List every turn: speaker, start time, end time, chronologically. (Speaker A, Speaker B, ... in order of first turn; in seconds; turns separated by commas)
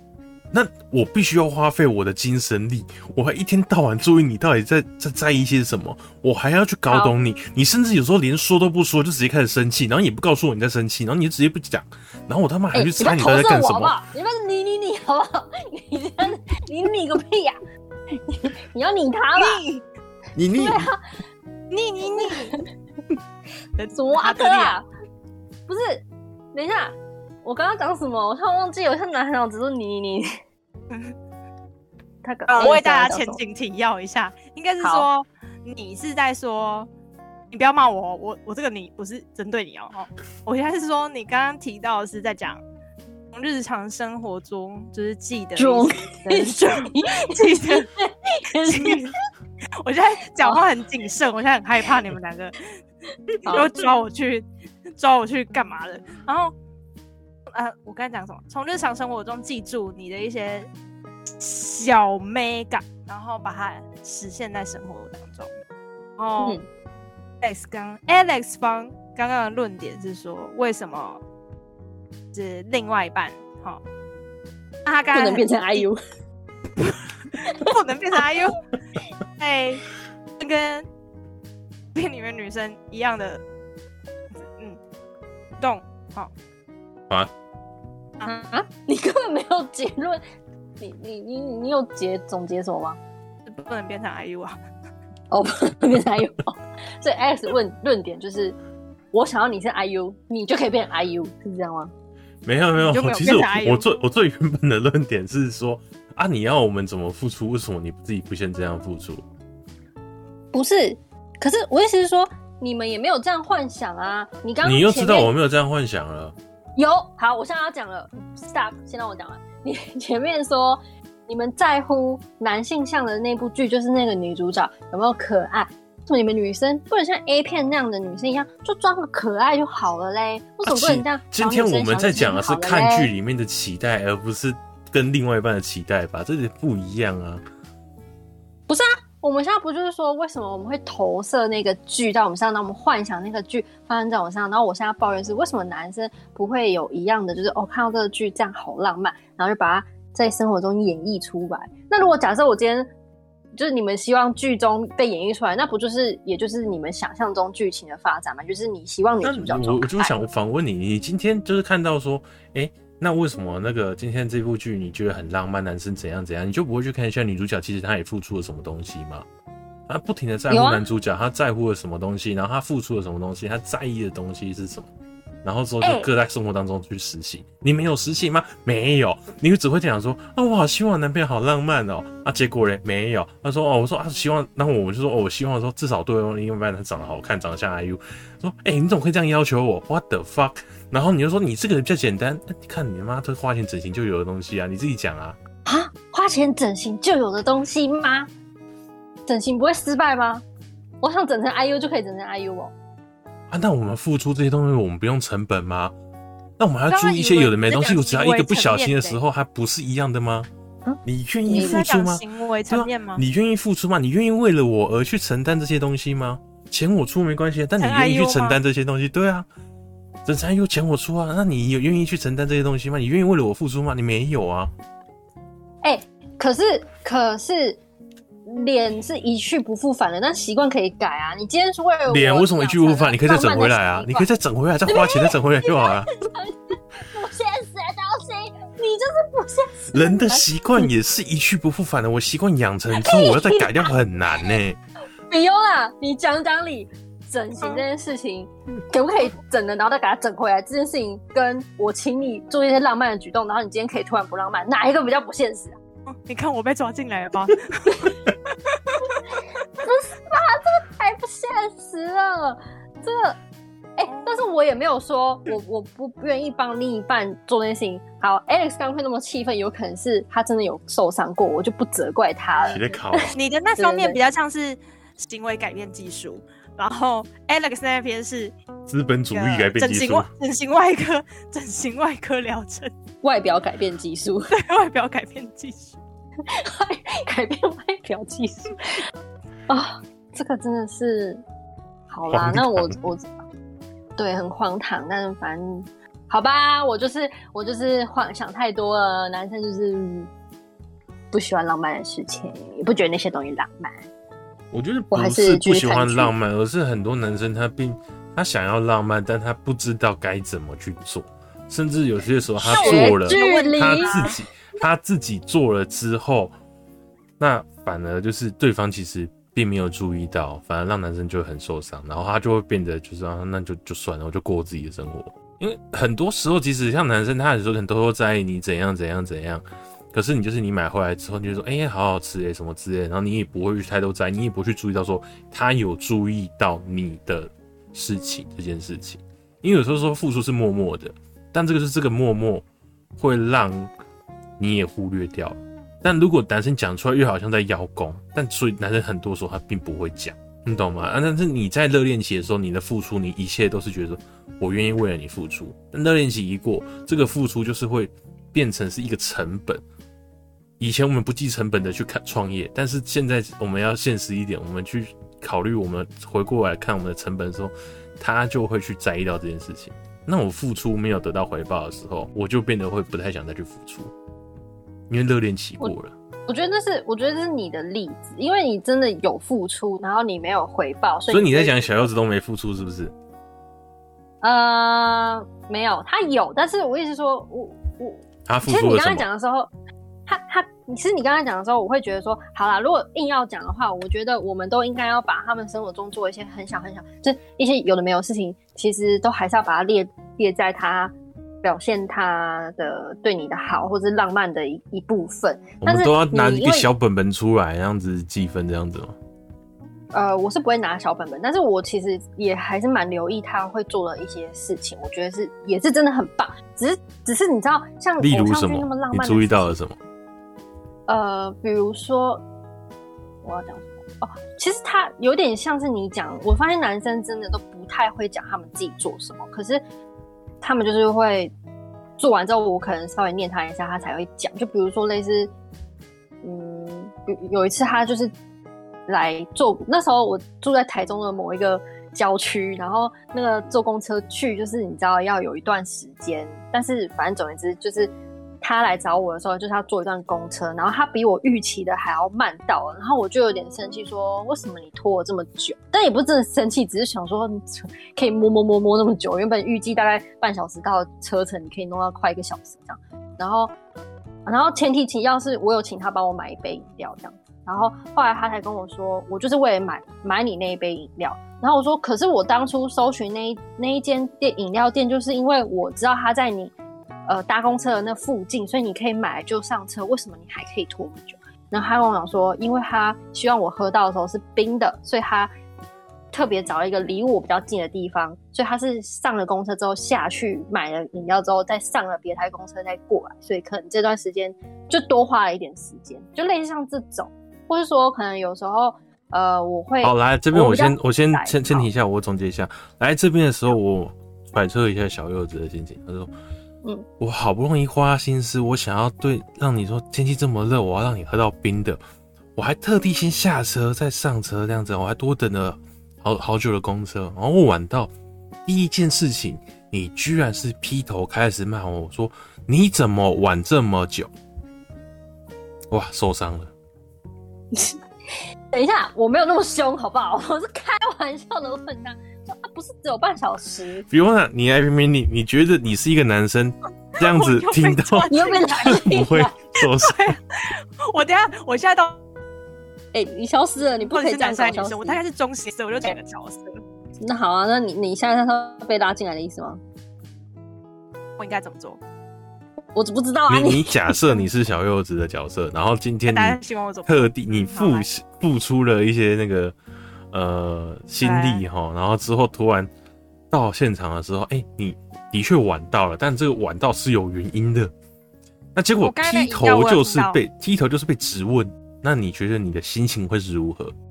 Speaker A: 0.5-14.0, Speaker B: 6.9-7.1, Speaker B: 12.7-17.6, Speaker B: 18.1-19.6, Speaker C: 19.4-19.8, Speaker A: 20.4-20.9, Speaker B: 20.5-21.0, Speaker C: 21.7-22.6, Speaker B: 22.0-22.6, Speaker C: 23.8-24.7, Speaker B: 23.9-24.9, Speaker B: 25.7-30.3, Speaker C: 30.9-31.1, Speaker B: 32.2-33.4, Speaker C: 32.5-36.9, Speaker B: 34.8-35.1, Speaker C: 37.5-42.6, Speaker C: 43.3-47.9, Speaker B: 45.5-49.1, Speaker C: 48.5-49.1, Speaker C: 49.8-52.6, Speaker C: 53.4-56.5, Speaker B: 53.4-53.9, Speaker C: 57.5-60.7, Speaker C: 61.4-65.5, Speaker C: 66.2-66.6, Speaker B: 66.4-66.7, Speaker C: 67.4-71.2, Speaker C: 72.3-73.8, Speaker C: 74.8-75.9, Speaker B: 75.1-76.0, Speaker C: 76.8-78.6, Speaker B: 77.4-77.8, Speaker C: 79.4-79.9, Speaker C: 80.4-80.8, Speaker C: 81.9-83.4, Speaker C: 85.6-86.3, Speaker B: 88.2-90.2, Speaker B: 90.8-93.0, Speaker C: 93.5-94.6, Speaker B: 95.3-98.5, Speaker B: 99.1-101.9, Speaker A: 102.4-109.2, Speaker C: 102.8-103.9, Speaker B: 110.5-115.3, Speaker A: 114.6-116.3, Speaker B: 116.8-133.1, Speaker A: 130.6-137.4, Speaker B: 138.7-152.9, Speaker B: 153.5-160.2, Speaker A: 159.2-169.2, Speaker A: 169.9-174.9, Speaker B: 170.5-170.8, Speaker A: 175.4-195.4, Speaker B: 175.8-176.1, Speaker B: 195.6-198.3, Speaker B: 199.3-200.4, Speaker B: 201.0-202.7, Speaker A: 203.5-205.9, Speaker A: 206.6-210.5, Speaker C: 206.9-209.2, Speaker B: 210.8-211.8, Speaker A: 211.0-219.4, Speaker C: 211.5-213.2, Speaker C: 217.8-218.6, Speaker A: 220.2-224.7, Speaker B: 225.8-227.8, Speaker B: 228.4-234.3, Speaker A: 232.1-236.1, Speaker B: 234.9-240.9, Speaker A: 239.9-244.8, Speaker B: 242.9-243.9, Speaker B: 245.3-255.8, Speaker C: 256.1-259.2, Speaker B: 259.3-263.4, Speaker B: 264.0-274.2, Speaker C: 264.1-264.4, Speaker A: 272.6-273.4, Speaker C: 273.3-278.5, Speaker A: 278.9-280.3, Speaker C: 279.3-282.9, Speaker B: 283.2-284.5, Speaker C: 284.5-286.0, Speaker B: 286.4-288.8, Speaker B: 289.7-291.4, Speaker B: 292.1-293.3, Speaker A: 292.3-292.9, Speaker B: 294.2-300.3, Speaker B: 301.3-304.1, Speaker A: 304.7-316.5, Speaker B: 305.1-306.3, Speaker B: 312.6-314.3, Speaker C: 312.7-314.3, Speaker A: 317.4-342.6, Speaker A: 343.2-343.9, Speaker A: 344.6-359.8, Speaker A: 360.8-374.1, Speaker A: 375.1-376.1, Speaker B: 376.5-382.1, Speaker A: 381.3-383.1, Speaker B: 384.4-389.7, Speaker A: 388.4-389.3, Speaker B: 390.3-406.9, Speaker A: 405.8-409.1, Speaker B: 410.1-419.7, Speaker A: 418.2-420.0, Speaker B: 421.1-422.4, Speaker B: 423.4-429.8, Speaker B: 430.6-431.5, Speaker B: 432.2-435.5, Speaker B: 436.4-438.3, Speaker B: 439.1-463.7, Speaker B: 464.4-476.7, Speaker B: 477.2-485.5, Speaker B: 486.3-501.9, Speaker A: 500.0-506.3, Speaker A: 507.2-512.0, Speaker A: 512.5-518.1, Speaker A: 518.6-524.3, Speaker A: 525.9-526.7, Speaker B: 527.7-528.0, Speaker B: 528.7-534.0, Speaker A: 534.1-540.3, Speaker C: 537.2-539.0, Speaker B: 538.3-539.5, Speaker C: 539.8-542.2, Speaker B: 543.1-545.2, Speaker C: 544.0-546.8, Speaker B: 547.2-549.8, Speaker C: 551.4-552.0, Speaker B: 552.9-554.4, Speaker A: 553.5-559.7, Speaker C: 556.3-558.1, Speaker A: 560.3-562.9, Speaker C: 561.2-561.6, Speaker A: 563.5-567.9, Speaker A: 568.7-573.9, Speaker C: 569.0-570.4